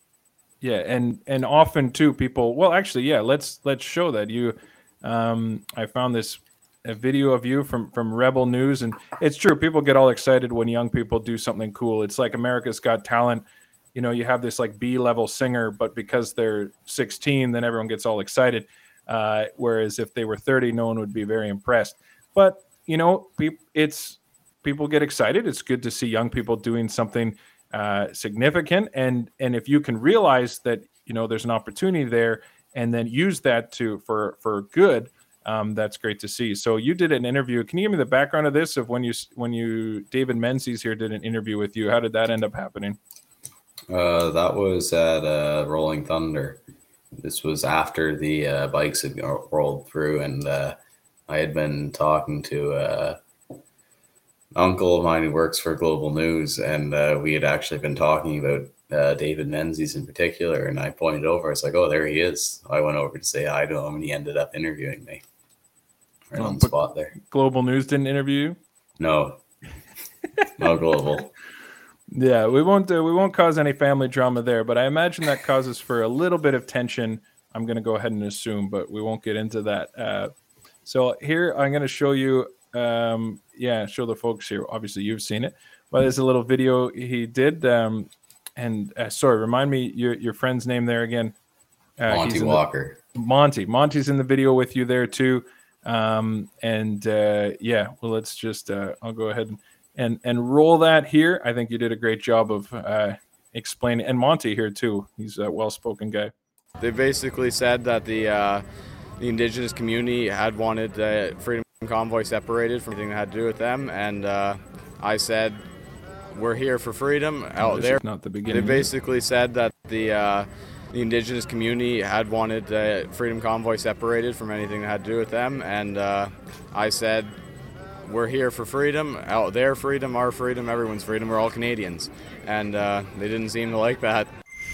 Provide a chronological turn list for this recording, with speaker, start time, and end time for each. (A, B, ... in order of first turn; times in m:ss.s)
0:00.6-0:43.0 A
0:43.9-0:46.6 B
0:47.2-0:50.8 B
0:51.3-0:53.2 B
0:54.5-1:05.2 B
1:06.3-1:07.1 B
1:06.4-1:08.6 A
1:09.0-1:09.4 B
1:10.6-1:11.3 B
1:12.1-1:20.3 A
1:20.8-1:31.3 A
1:32.0-1:46.3 A
1:32.1-1:33.0 B
1:46.8-1:48.6 C
1:49.2-1:55.6 C
1:56.3-2:07.4 C
1:57.6-1:58.9 A
2:08.0-2:14.3 C